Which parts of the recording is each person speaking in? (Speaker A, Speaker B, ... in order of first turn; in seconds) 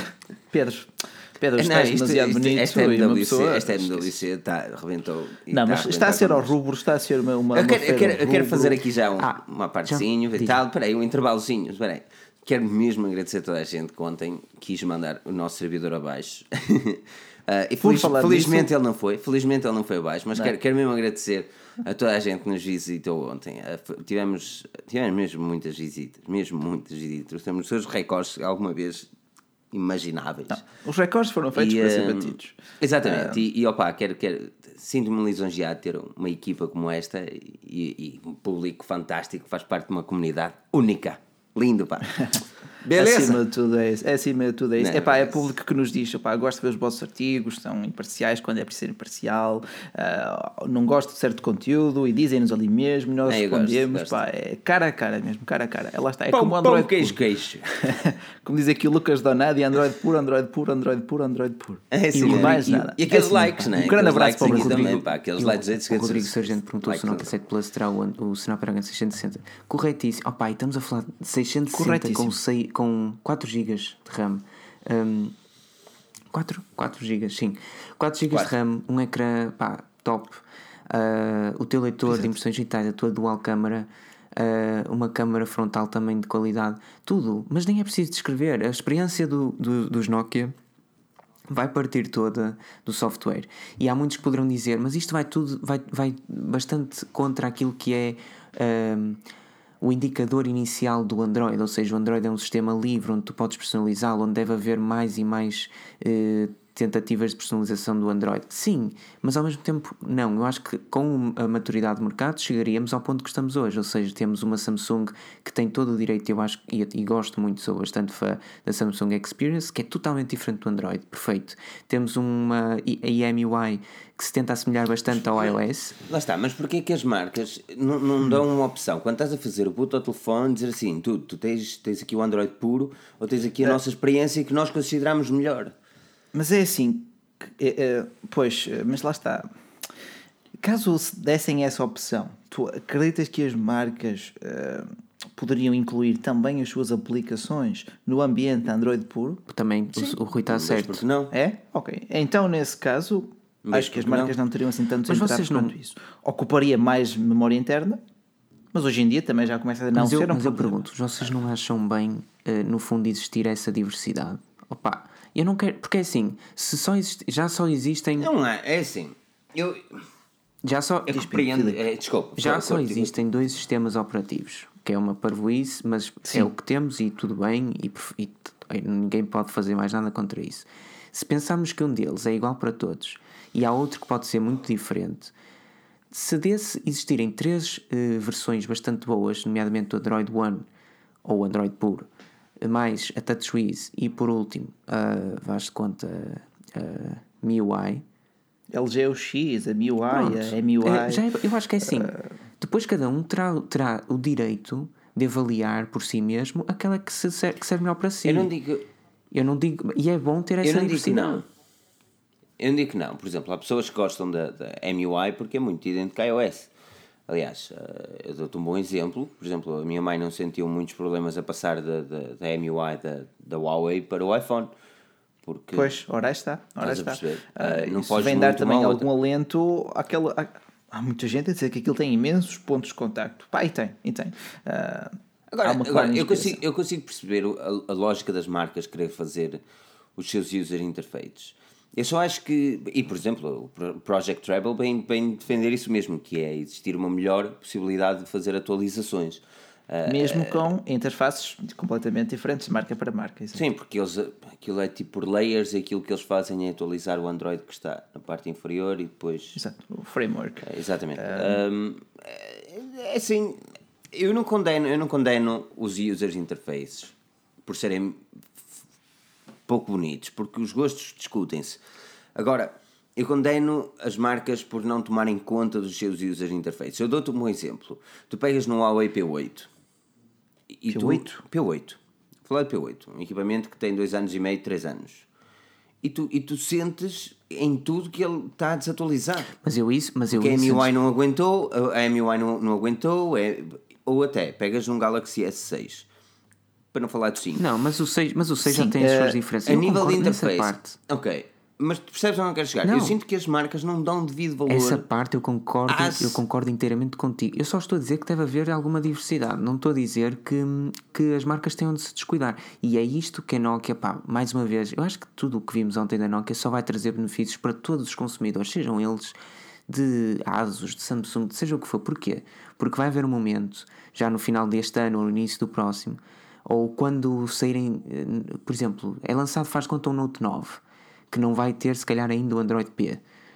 Speaker A: 0.5-4.1, 5.5-8.8, 17.8-18.7, 30.7-33.4, 42.9-57.2, 57.8-65.0, 71.7-72.4, 136.3-139.5, 140.6-149.4, 151.3-158.0, 158.7-160.8, 171.1-171.8, 176.2-176.5, 198.7-201.2, 201.9-202.2, 225.7-236.6, 250.1-253.6, 259.5-261.6, 280.9-281.4, 298.6-299.4
Speaker B: 1.6-6.5, 7.5-29.1, 29.7-30.7, 31.6-43.4, 44.8-45.5, 53.2-54.2, 56.3-57.6, 61.9-67.3, 125.1-135.7, 149.9-151.3, 153.6-154.4, 168.2-170.0, 171.1-173.2, 208.2-208.9, 210.6-211.4, 212.6-216.7, 217.3-224.7, 225.4-225.9, 226.8-229.1, 235.5-239.6, 240.2-250.6, 253.5-259.6, 260.6-267.1, 267.6-268.2, 269.7-271.8, 272.3-279.7, 280.7-285.2, 286.0-289.5, 290.3-296.1, 296.9-297.6, 299.6-305.0, 305.9-306.4
Speaker C: 9.2-10.6, 62.1-62.9, 64.4-75.3, 76.3-90.5, 91.5-99.2, 99.8-126.0, 149.5-151.0, 155.1-155.7, 159.9-168.3, 170.6-171.4, 172.4-185.3, 186.1-190.7, 191.2-192.1, 192.6-198.0, 200.1-208.5, 209.3-211.4, 289.6-290.9, 297.6-301.0, 302.8-303.1, 304.7-319.4, 319.9-333.2